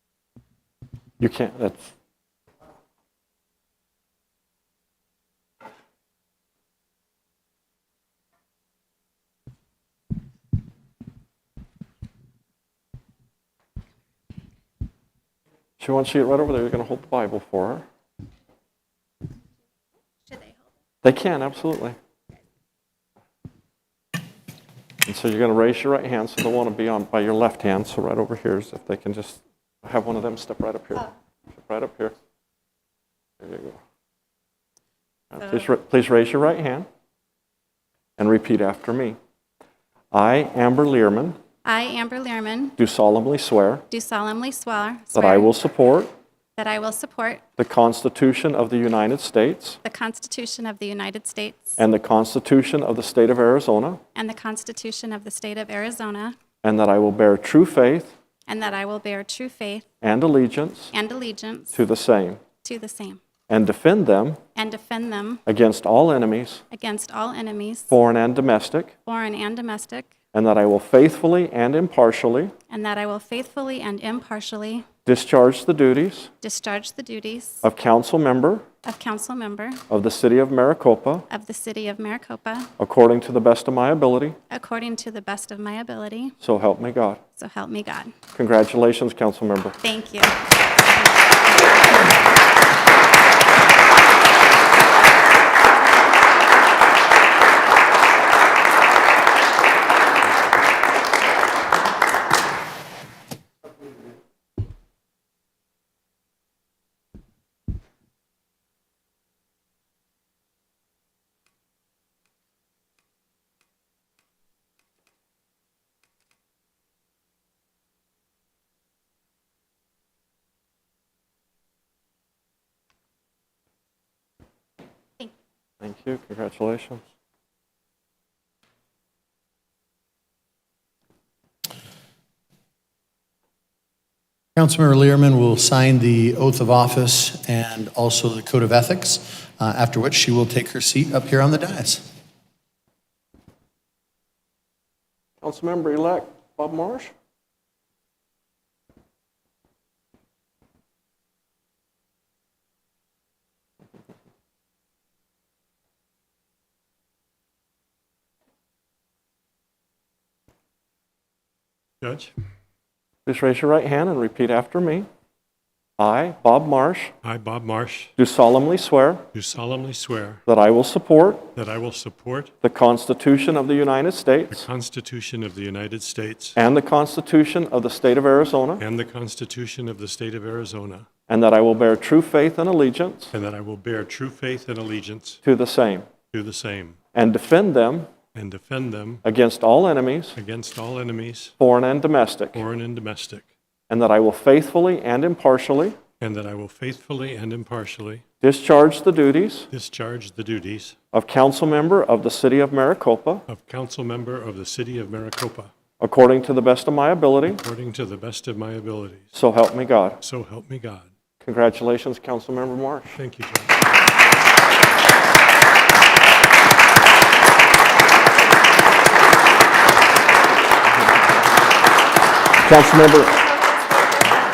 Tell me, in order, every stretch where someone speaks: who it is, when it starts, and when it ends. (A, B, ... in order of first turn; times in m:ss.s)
0:01.2-0:01.9 A
0:15.8-0:17.8 A
0:21.0-0:22.0 A
0:25.0-0:32.1 A
0:33.4-0:33.8 A
0:35.3-0:36.9 A
0:38.2-0:39.2 A
0:40.1-0:41.4 A
0:41.6-0:42.8 B
0:42.8-0:43.8 A
0:43.9-0:45.5 B
0:45.1-0:46.1 A
0:46.6-0:47.4 B
0:47.6-0:49.8 A
0:49.8-0:51.8 B
0:51.8-0:54.0 A
0:54.2-0:56.4 B
0:56.6-0:58.1 A
0:58.5-0:59.9 B
1:00.0-1:00.9 A
1:00.9-1:01.8 B
1:01.7-1:02.4 A
1:02.6-1:03.2 B
1:03.5-1:04.4 A
1:04.6-1:05.4 B
1:05.5-1:06.6 A
1:06.7-1:07.9 B
1:07.9-1:09.0 A
1:09.0-1:10.1 B
1:10.3-1:12.5 A
1:12.7-1:14.9 B
1:15.0-1:16.3 A
1:16.4-1:17.6 B
1:17.6-1:18.6 A
1:18.8-1:19.8 B
1:19.9-1:21.3 A
1:21.3-1:22.7 B
1:22.8-1:24.4 A
1:24.5-1:26.4 B
1:26.4-1:27.2 A
1:27.4-1:28.1 B
1:28.4-1:29.8 A
1:29.8-1:32.1 B
2:05.8-2:07.0 A
2:14.6-2:22.0 C
2:25.4-2:27.1 A
2:42.0-2:42.3 D
2:43.3-2:45.1 A
2:46.0-2:47.1 A
2:47.2-2:48.1 D
2:48.2-2:49.2 A
2:49.3-2:50.4 D
2:50.5-2:51.5 A
2:51.6-2:52.5 D
2:52.6-2:54.7 A
2:54.5-2:56.6 D
2:56.6-2:58.8 A
2:58.8-3:01.1 D
3:01.3-3:03.3 A
3:03.3-3:05.4 D
3:05.4-3:06.1 A
3:06.3-3:07.0 D
3:07.1-3:08.2 A
3:08.3-3:09.2 D
3:09.2-3:10.4 A
3:10.4-3:11.5 D
3:11.6-3:12.6 A
3:12.6-3:13.5 D
3:13.9-3:16.0 A
3:16.2-3:18.2 D
3:18.4-3:19.7 A
3:19.7-3:21.0 D
3:21.1-3:23.5 A
3:23.5-3:25.7 D
3:26.0-3:27.6 A
3:27.6-3:29.2 D
3:29.3-3:30.2 A
3:30.2-3:31.1 D
3:31.4-3:33.2 A
3:33.2-3:33.7 D
3:42.6-3:43.6 A